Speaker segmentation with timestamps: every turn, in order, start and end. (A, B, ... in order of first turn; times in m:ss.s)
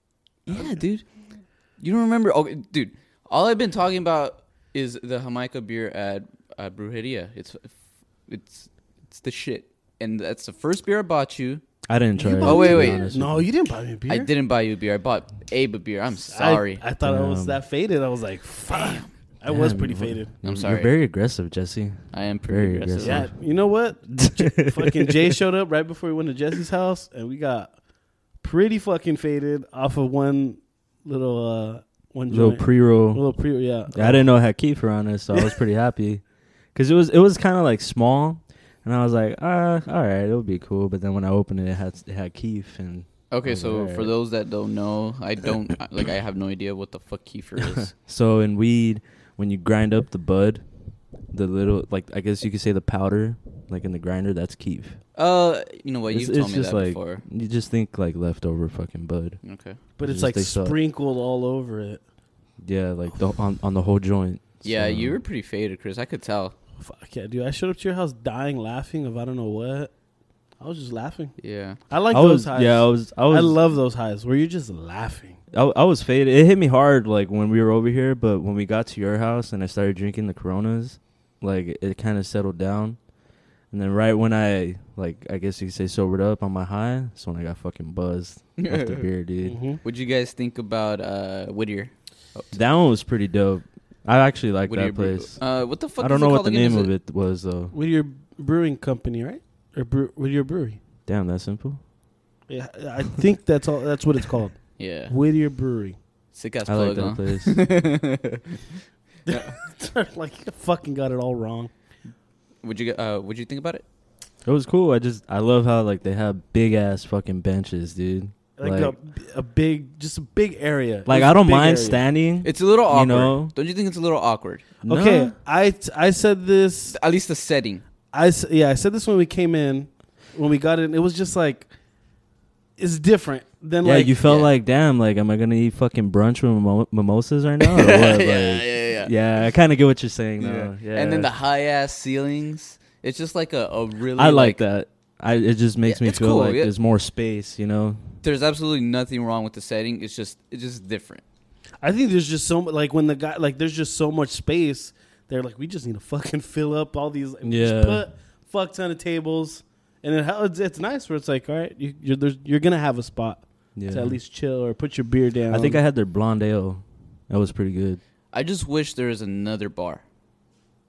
0:00.5-0:11.6 A
0:00.5-0:00.8 B
0:11.9-0:13.4 C
0:12.2-0:14.3 B
0:12.4-0:13.1 A
0:14.1-0:16.8 A
0:16.3-0:20.3 B
0:17.0-0:17.6 C
0:18.7-0:19.1 A
0:19.5-0:23.6 C
0:20.4-0:21.0 A
0:22.1-0:23.3 A
0:23.0-0:34.4 B
0:24.2-0:24.9 C
0:32.3-0:33.4 C
0:33.9-0:36.2 C
0:35.3-0:35.6 B
0:36.7-0:44.1 C
0:43.3-0:47.9 A
0:47.8-0:50.7 C
0:51.3-0:55.0 C
0:55.2-0:57.2 A
0:56.1-1:00.8 C
0:59.4-0:59.8 A
1:00.0-1:02.0 B
1:02.6-1:05.2 C
1:04.6-1:06.6 A
1:06.8-1:10.0 B
1:10.6-1:15.4 B
1:11.4-1:11.8 A
1:12.1-1:13.6 C
1:15.5-1:23.0 C
1:23.7-1:29.6 C
1:28.6-1:29.0 A
1:29.4-1:29.8 B
1:29.8-1:32.6 A
1:32.5-1:37.8 C
1:34.7-1:36.9 A
1:37.7-1:40.8 B
1:41.1-1:41.8 C
1:42.5-1:46.0 B
1:44.8-1:45.2 A
1:46.3-1:48.5 A
1:46.7-1:47.6 C
1:49.3-1:51.7 B
1:49.3-1:49.5 A
1:52.6-1:53.8 A
1:54.4-1:58.9 C
1:58.6-2:02.1 B
2:01.1-2:03.5 C
2:02.4-2:04.6 A
2:04.8-2:07.0 B
2:04.8-2:05.4 C
2:06.9-2:07.8 A
2:08.1-2:11.7 B
2:12.8-2:14.2 B
2:13.8-2:21.3 C
2:14.2-2:14.5 A
2:17.6-2:19.1 A
2:20.4-2:24.6 A
2:24.2-2:28.0 C
2:25.9-2:26.7 A
2:28.2-2:31.2 A
2:31.8-2:45.8 B
2:37.4-2:38.0 C
2:43.8-2:44.2 C
2:45.5-2:48.0 C
2:48.3-2:50.0 A